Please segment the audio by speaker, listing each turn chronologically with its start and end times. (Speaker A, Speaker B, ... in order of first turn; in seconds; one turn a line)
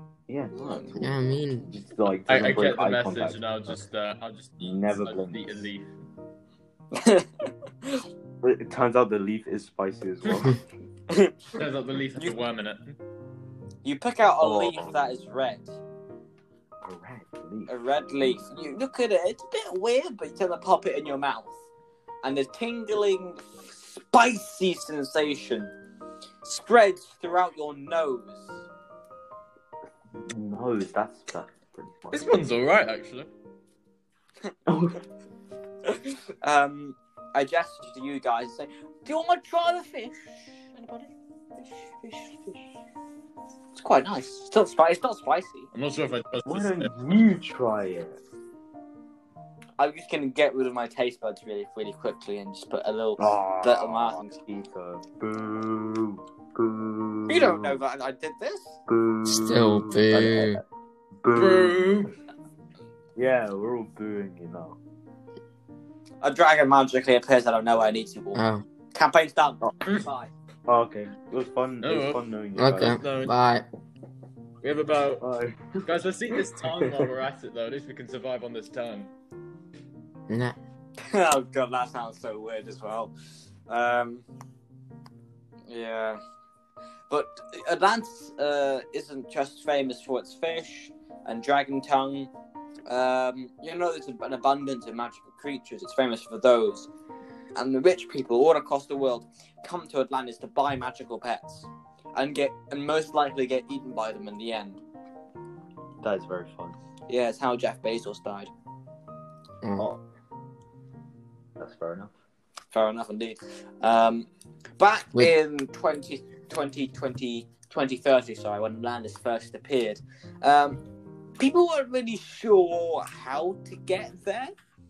Speaker A: 0.3-3.8
Speaker B: 0.5-0.9
Speaker C: 1.0-1.7
Speaker D: 2.3-5.9
Speaker A: 4.6-5.7
Speaker B: 6.9-8.0
Speaker A: 8.4-10.6
Speaker B: 11.1-11.4
Speaker D: 11.6-12.9
Speaker B: 13.8-15.8
Speaker A: 14.4-14.9
Speaker A: 16.8-18.4
Speaker B: 17.7-21.6
Speaker B: 22.2-25.7
Speaker B: 26.4-28.6
Speaker A: 30.2-32.4
Speaker D: 32.1-33.3
Speaker A: 34.7-35.0
Speaker B: 35.9-42.6
Speaker B: 43.7-45.7
Speaker D: 45.7-47.0
Speaker A: 46.5-48.2
Speaker B: 49.8-54.4
Speaker A: 53.2-57.8
Speaker B: 57.3-58.8
Speaker A: 58.9-60.6
Speaker C: 59.3-60.6
Speaker A: 61.2-62.1
Speaker D: 61.3-62.1
Speaker A: 63.2-64.8
Speaker B: 66.2-68.4
Speaker C: 68.3-68.7
Speaker B: 68.9-70.3
Speaker A: 70.7-73.0
Speaker D: 71.8-72.2
Speaker C: 72.6-73.7
Speaker D: 72.9-73.3
Speaker D: 74.6-75.2
Speaker A: 75.2-77.1
Speaker D: 75.8-79.1
Speaker C: 80.3-80.6
Speaker B: 81.0-83.1
Speaker B: 83.7-84.2
Speaker B: 85.7-86.2
Speaker B: 87.1-92.3
Speaker B: 92.9-96.9
Speaker B: 97.5-104.8
Speaker A: 106.0-106.8
Speaker B: 107.1-108.5
Speaker A: 111.6-112.1
Speaker B: 112.7-114.3
Speaker B: 114.8-120.8
Speaker B: 121.4-124.5